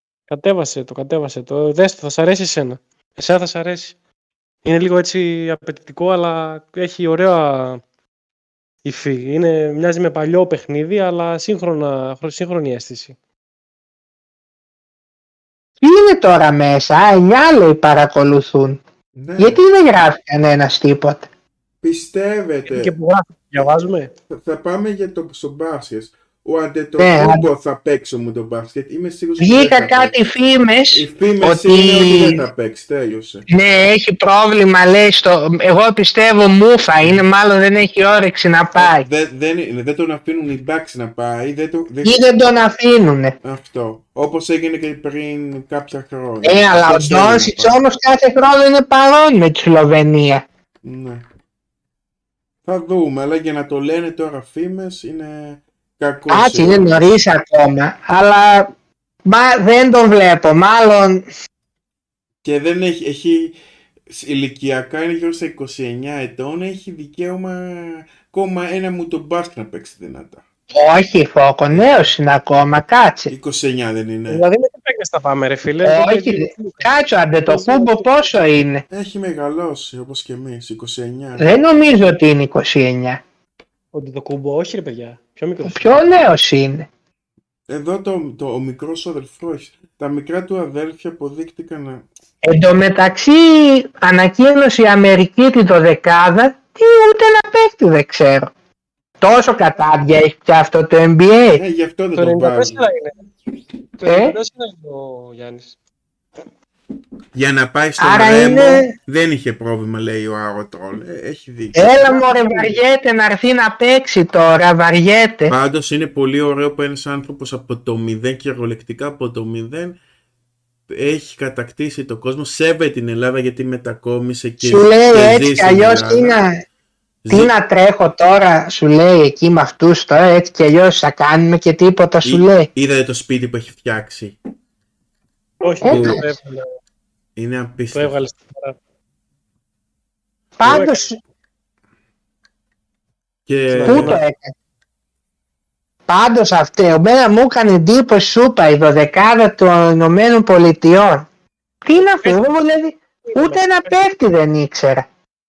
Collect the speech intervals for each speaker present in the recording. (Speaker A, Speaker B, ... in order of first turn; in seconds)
Speaker A: 0.3-4.0, 4.6-7.8, 8.8-13.2, 22.7-24.1, 74.3-76.9, 77.5-78.3, 83.9-86.1, 102.2-103.2, 104.0-105.8, 108.5-108.8, 112.0-112.8, 135.6-136.8, 137.9-138.8, 140.6-141.1, 143.7-144.2, 151.9-152.5, 153.2-154.0
Speaker B: 15.8-18.8, 19.4-21.3, 27.0-27.5, 29.4-32.4, 33.5-39.1, 42.0-43.4, 46.4-50.5, 56.3-58.7, 59.2-61.2, 70.7-73.3, 75.8-78.8, 81.4-83.2, 85.7-86.9, 92.4-98.5, 99.2-101.6, 104.0-104.3, 108.0-108.9, 111.8-115.5, 124.6-126.6, 127.3-132.7, 135.8-136.2, 140.6-141.2, 143.9-144.5, 146.1-151.3, 151.8-155.1
Speaker C: 19.1-19.6, 21.8-22.9, 24.3-30.2, 30.9-33.5, 38.8-42.5, 43.4-47.8, 50.8-51.2, 52.7-57.0, 62.4-63.6, 64.1-70.4, 71.7-72.1, 73.3-74.4, 78.9-81.6, 87.7-92.0, 101.6-102.9, 107.3-112.2, 115.5-120.0, 120.9-126.4, 127.2-127.5, 132.2-134.4, 135.9-136.2, 137.4-138.2, 140.6-140.9, 143.5-144.2